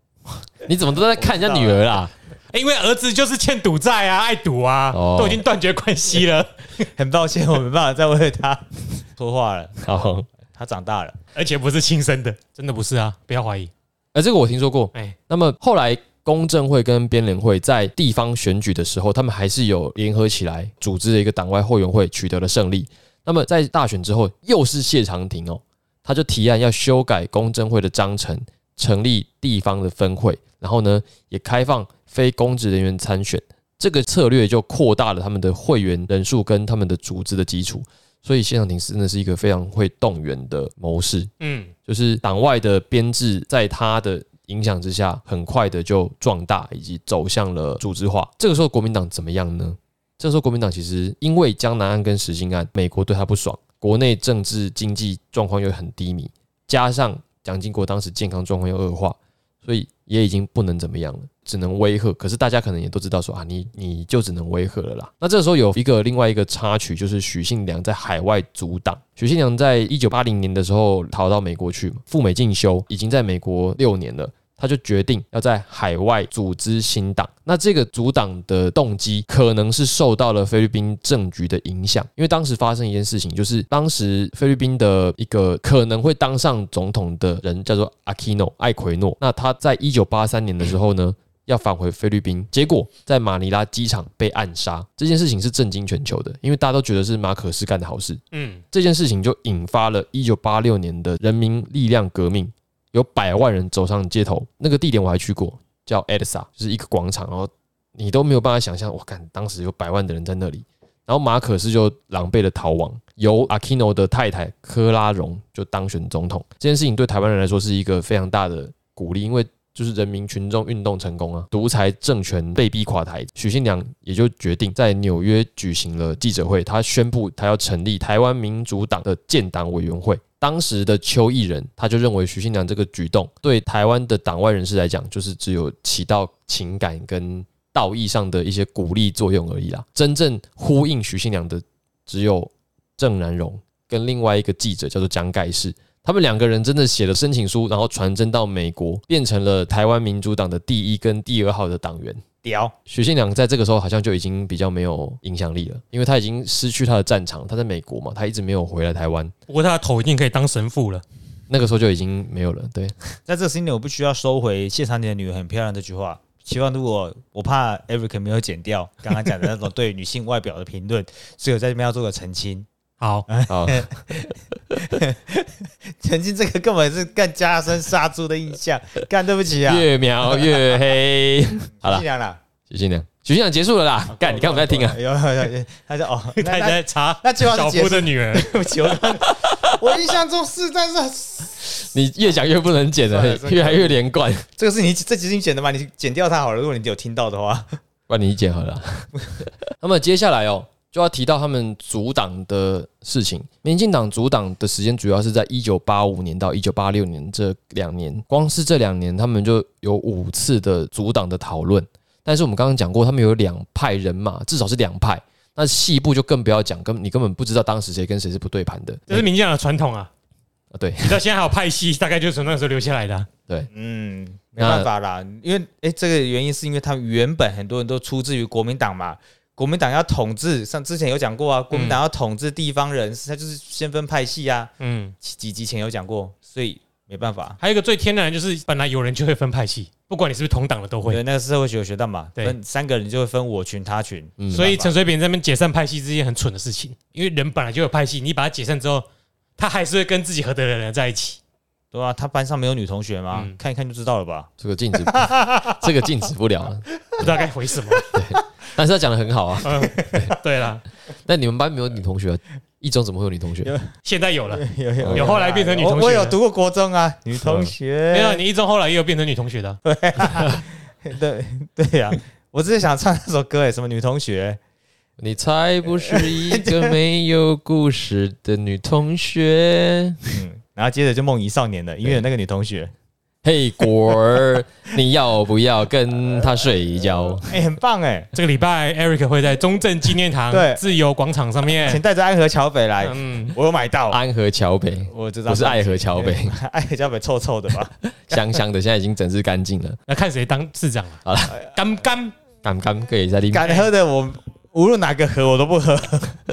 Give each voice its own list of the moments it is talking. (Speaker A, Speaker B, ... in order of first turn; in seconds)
Speaker A: 0.3-2.1, 4.9-5.4, 9.8-10.3, 14.1-41.3, 41.9-98.2, 98.7-152.2, 152.8-159.3, 161.5-162.9, 173.5-174.0, 179.7-182.0, 182.7-185.0, 189.2-189.7, 191.7-194.4, 198.1-199.1, 199.7-219.2, 220.7-221.2, 224.6-224.9, 244.4-244.7, 254.6-257.2, 258.1-260.3, 261.2-263.7, 265.0-265.4, 275.2-280.4, 283.4-287.6, 294.1-296.6, 298.1-300.0, 301.2-301.6, 302.6-303.7
Speaker B: 1.1-1.9, 6.9-9.8, 10.5-11.2, 152.4-152.7, 163.3-172.7, 173.3-180.8, 181.8-182.4, 184.1-191.7, 193.1-194.0, 194.6-197.8, 223.7-237.6, 241.1-244.9, 251.9-255.8, 256.9-257.3, 257.9-258.4, 259.8-260.3, 263.6-263.9, 264.5-268.4, 269.8-274.6, 276.0-276.9, 280.3-282.9, 287.4-288.3, 290.5-290.8, 291.7-294.2, 295.1-298.6, 303.5-306.4
Speaker C: 2.5-6.9, 11.3-13.7, 41.4-41.7, 98.3-98.6, 159.5-161.0, 173.0-173.3, 186.3-188.5, 219.1-220.1, 221.0-223.3, 231.7-232.0, 234.8-235.1, 237.6-241.2, 244.5-249.0, 249.6-251.4, 257.2-258.1, 259.6-260.8, 264.0-266.4, 268.1-269.8, 288.3-292.0, 293.0-293.6, 300.1-302.3